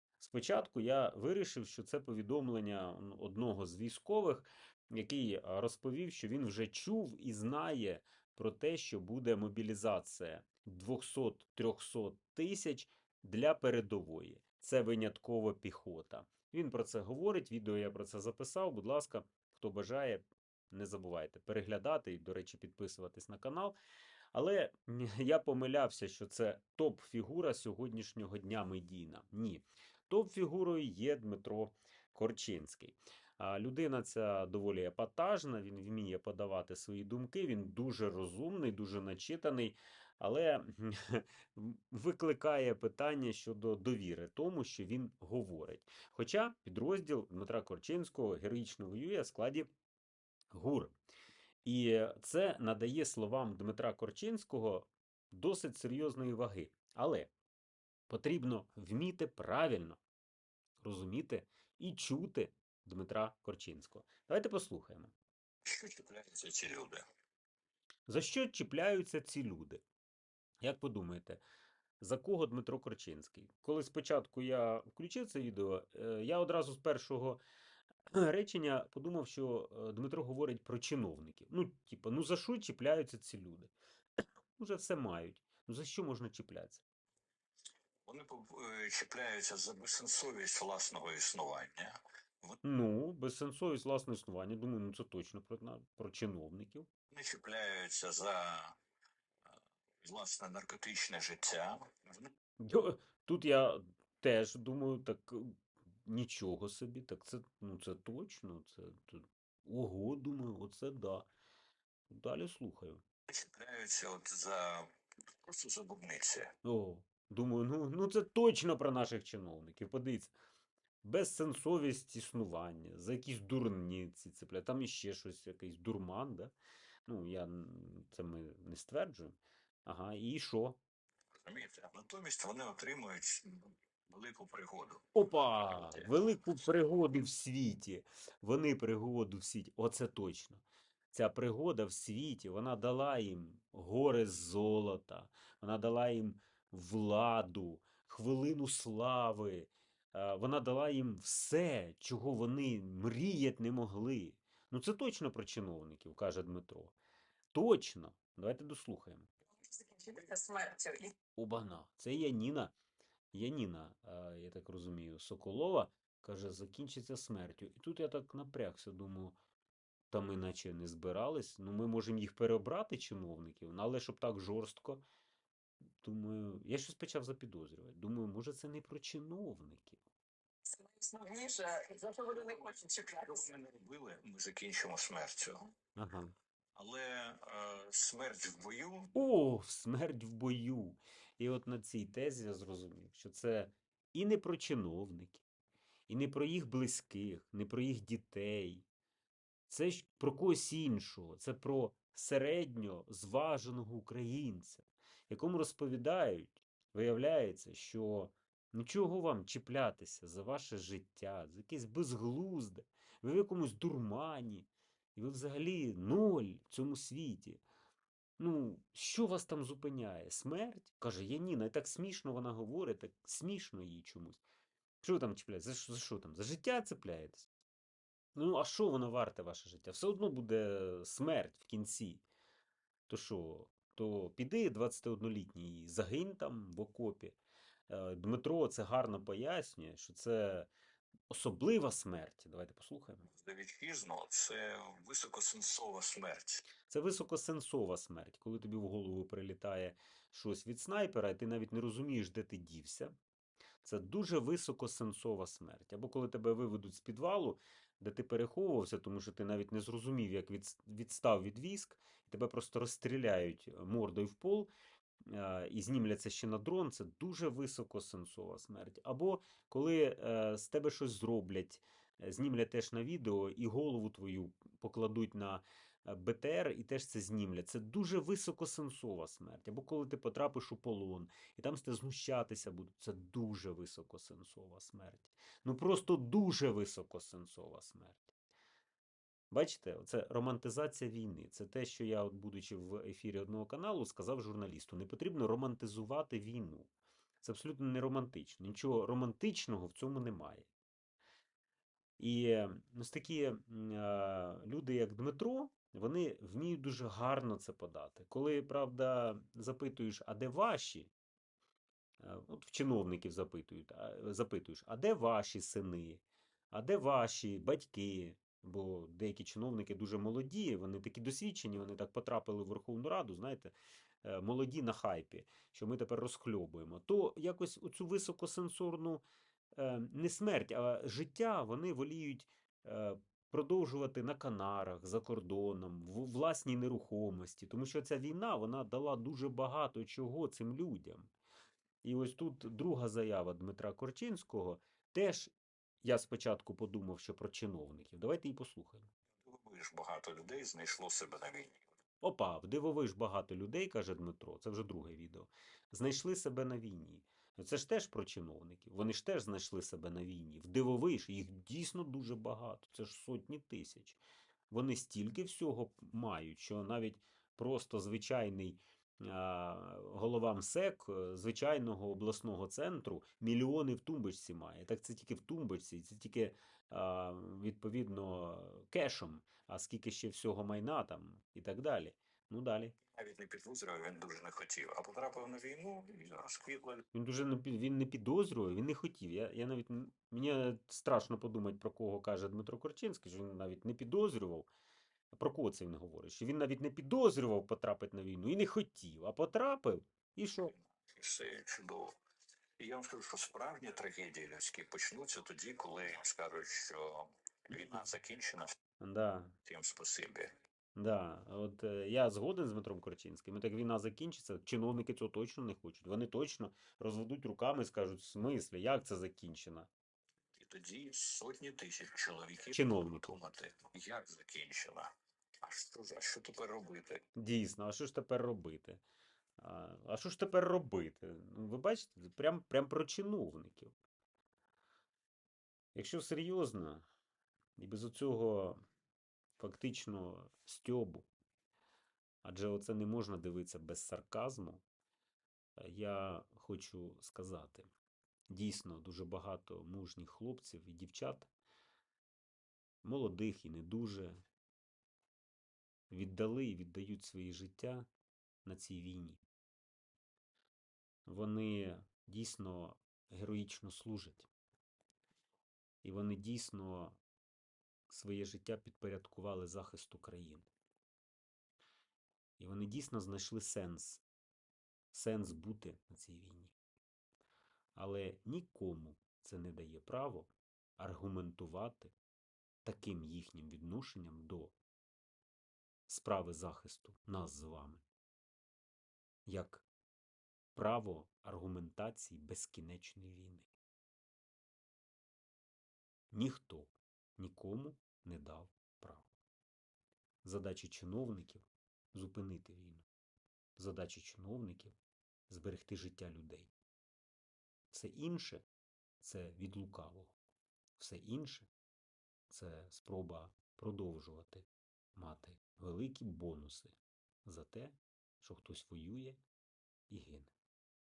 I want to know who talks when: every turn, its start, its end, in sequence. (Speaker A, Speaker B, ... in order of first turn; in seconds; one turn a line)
Speaker A: 0.2-23.8
Speaker A: 24.3-49.7
Speaker A: 50.5-51.0
Speaker A: 51.6-57.3
Speaker A: 58.1-60.0
Speaker A: 60.8-65.1
Speaker B: 65.7-67.0
Speaker A: 68.1-69.8
Speaker A: 70.6-71.4
Speaker A: 72.0-77.4
Speaker A: 78.1-83.7
Speaker A: 84.5-86.8
Speaker B: 88.0-92.6
Speaker A: 92.6-96.9
Speaker B: 97.1-98.8
Speaker B: 100.0-102.3
Speaker A: 102.6-111.3
Speaker A: 112.1-113.0
Speaker B: 113.3-114.9
Speaker B: 115.5-116.5
Speaker A: 116.6-120.3
Speaker A: 121.0-126.5
Speaker A: 127.1-130.8
Speaker B: 131.4-135.0
Speaker A: 135.1-156.9
Speaker B: 135.7-136.1
Speaker A: 157.5-159.3
Speaker C: 159.7-161.1
Speaker A: 161.3-162.7
Speaker A: 163.3-169.3
Speaker A: 170.1-175.0
Speaker A: 176.0-180.0
Speaker C: 180.7-183.4
Speaker B: 182.4-185.7
Speaker A: 185.9-186.3
Speaker B: 186.8-189.1
Speaker A: 189.1-195.4
Speaker A: 196.1-198.8
Speaker A: 199.7-217.6
Speaker A: 218.4-224.4
Speaker A: 225.0-227.5
Speaker A: 228.3-232.2
Speaker A: 233.1-237.4
Speaker A: 237.9-240.7
Speaker A: 241.3-243.3
Speaker B: 243.3-246.6
Speaker A: 246.9-253.1
Speaker A: 253.8-264.7
Speaker A: 265.2-288.3
Speaker A: 289.5-296.9
Speaker A: 297.4-300.7
Speaker A: 302.2-311.1
Speaker A: 312.2-341.3
Speaker A: 342.0-349.1
Speaker B: 349.4-351.8
Speaker A: 352.2-364.2
Speaker A: 364.7-382.9
Speaker B: 383.1-387.0
Speaker A: 387.1-394.7
Speaker A: 395.3-400.7
Speaker B: 401.0-402.1
Speaker B: 402.8-408.7
Speaker A: 409.0-409.6
Speaker B: 409.6-410.5
Speaker A: 410.9-419.9
Speaker B: 420.6-425.1
Speaker A: 422.7-423.3
Speaker B: 425.6-427.2
Speaker A: 427.4-429.0
Speaker A: 429.6-433.9
Speaker A: 435.9-437.0
Speaker A: 437.8-438.8
Speaker A: 439.6-441.3
Speaker A: 442.4-444.8
Speaker A: 445.8-447.9
Speaker A: 448.5-451.5
Speaker A: 453.0-454.4
Speaker A: 456.1-458.1
Speaker A: 458.6-459.4
Speaker A: 461.2-464.5
Speaker A: 466.0-467.2
Speaker A: 468.1-470.7
Speaker A: 472.6-474.2
Speaker A: 475.1-476.7
Speaker A: 477.9-482.1
Speaker A: 482.8-484.8
Speaker A: 486.1-488.0
Speaker A: 489.4-489.8
Speaker A: 490.7-493.7
Speaker A: 496.3-499.3
Speaker A: 500.4-503.1
Speaker A: 503.8-505.0
Speaker A: 505.5-506.7
Speaker A: 507.9-508.6
Speaker A: 509.2-510.4
Speaker A: 511.0-511.7
Speaker A: 512.5-519.4
Speaker A: 520.1-520.5